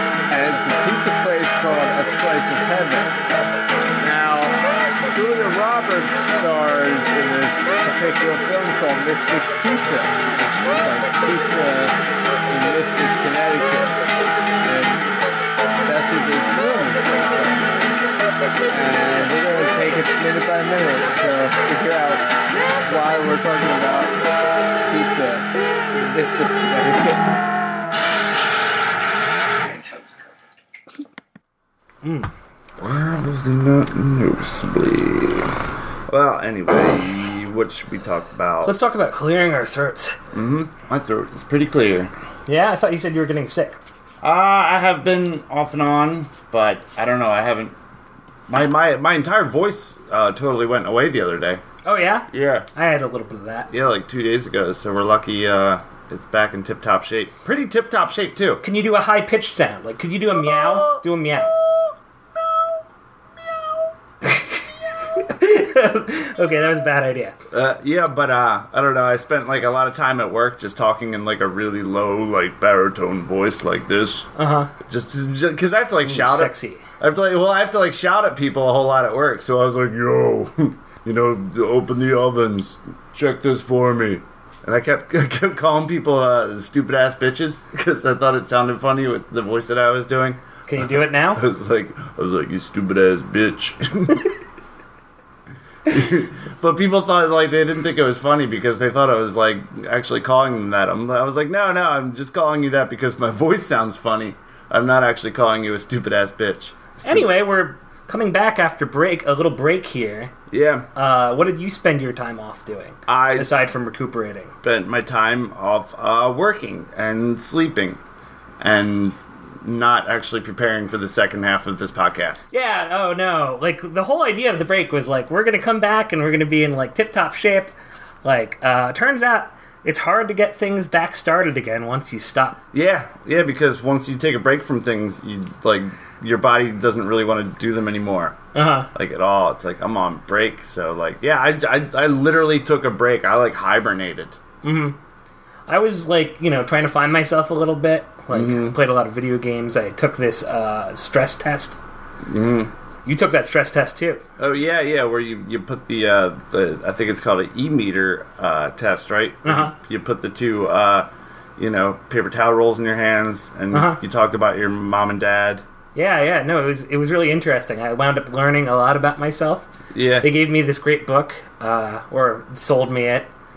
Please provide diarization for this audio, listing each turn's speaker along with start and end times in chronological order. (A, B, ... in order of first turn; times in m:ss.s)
0:00.3-0:03.2 A
0:04.0-0:04.6 A
0:05.1-0:12.0 A
0:12.5-0:14.0 A
0:14.6-0:15.0 A
0:15.8-0:17.9 A
0:18.7-0:27.3 A
0:32.0-0:32.3 B
0:32.8-0:38.8 C
0:38.6-0:40.2 B
0:40.3-0:42.1 C
0:42.5-0:43.8 B
0:44.2-0:47.8 C
0:48.5-0:51.6 C
0:51.8-0:53.7 B
0:52.3-0:52.7 C
0:53.7-0:58.6 C
0:58.6-1:01.5 B
1:00.4-1:02.8 C
1:03.4-1:03.9 C
1:04.2-1:07.4 B
1:07.5-1:14.3 C
1:14.4-1:14.7 B
1:14.9-1:34.3 C
1:16.0-1:16.8 B
1:30.7-1:31.4 B
1:35.9-1:47.3 C
1:47.0-1:50.3 B
1:50.5-1:50.9 C
1:51.0-1:54.5 B
1:53.1-1:53.5 C
1:54.6-1:58.0 C
1:58.6-2:02.5 C
2:02.5-2:07.7 B
2:08.2-2:12.6 B
2:12.7-2:18.4 C
2:18.5-2:18.9 B
2:18.9-2:24.4 C
2:24.6-2:25.0 B
2:25.7-2:31.8 B
2:28.3-2:28.8 C
2:32.3-2:32.7 C
2:33.0-2:34.2 B
2:34.4-2:45.6 C
2:39.4-2:39.8 B
2:43.7-2:44.0 B
2:46.0-2:49.7 B
2:49.9-2:50.3 C
2:50.2-2:53.3 B